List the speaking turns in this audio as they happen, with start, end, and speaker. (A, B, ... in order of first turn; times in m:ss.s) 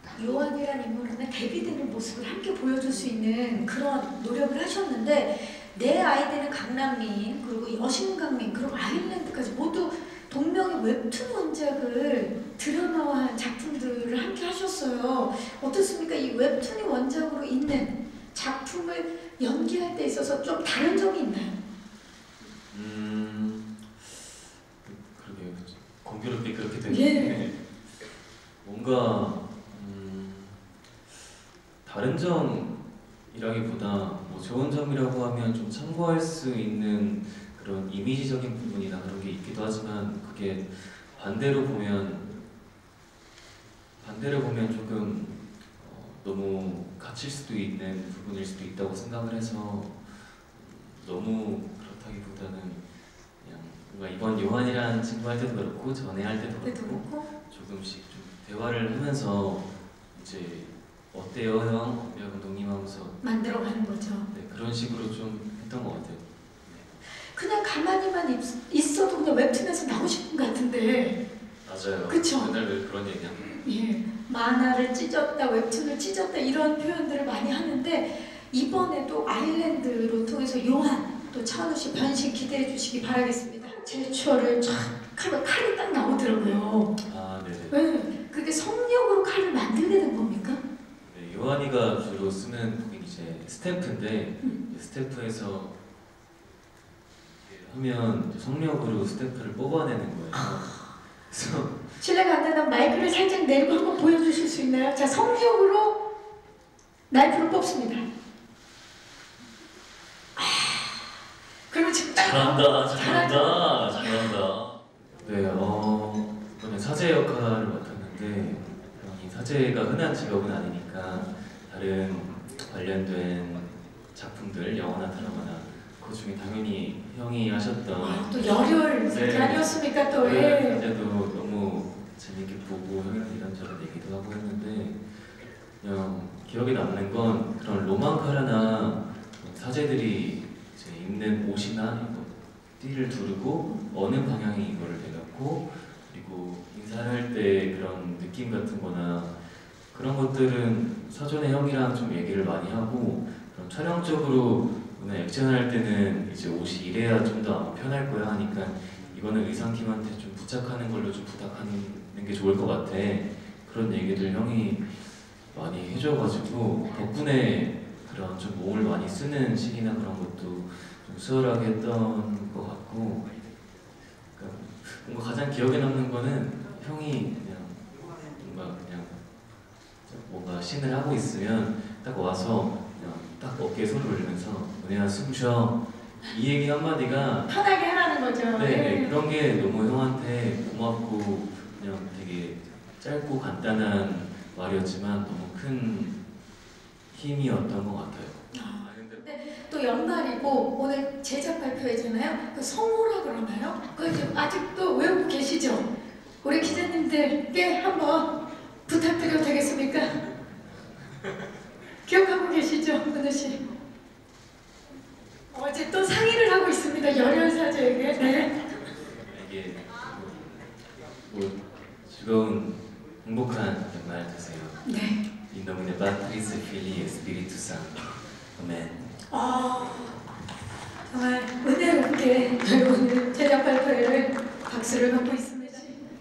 0:00.1-0:21.6 A
0:22.4-0:24.3 B
0:24.8-0:28.1 B
0:26.9-0:27.4 A
0:28.6-0:30.6 B
0:31.8-0:32.8 B
0:33.3-0:42.3 B
0:44.0-0:52.8 B
0:53.4-1:03.2 B
0:56.6-0:57.3 A
1:03.2-1:04.3 A
1:04.3-1:06.9 B
1:07.3-1:11.2 A
1:11.6-1:13.5 B
1:12.1-1:12.5 A
1:13.4-1:26.9 A
1:27.0-1:27.8 B
1:27.7-1:30.6 A
1:31.0-1:35.8 B
1:37.3-1:41.9 B
1:40.3-1:40.7 A
1:42.0-1:46.0 A
1:47.1-1:48.1 A
1:50.4-1:51.0 A
1:51.7-1:54.4 A
1:52.1-2:15.0 B
2:05.2-2:05.4 A
2:08.0-2:10.8 A
2:15.8-2:29.4 B
2:23.7-2:23.9 A
2:29.9-2:44.9 B
2:45.5-2:53.3 B
2:54.4-2:59.2 B
3:00.1-3:07.5 B
3:07.5-3:09.2 A
3:08.5-3:16.2 B
3:17.1-3:19.3 B
3:18.5-3:25.9 A
3:26.4-3:28.3 A
3:26.6-3:27.0 B
3:28.9-3:30.1 A
3:31.2-3:31.5 B
3:32.0-3:33.6 A
3:35.5-3:38.5 A
3:38.2-3:38.4 B
3:39.2-3:40.4 B
3:41.2-3:44.8 B
3:44.8-3:45.2 A
3:45.5-3:49.1 B
3:49.3-3:50.2 A
3:51.1-3:56.0 A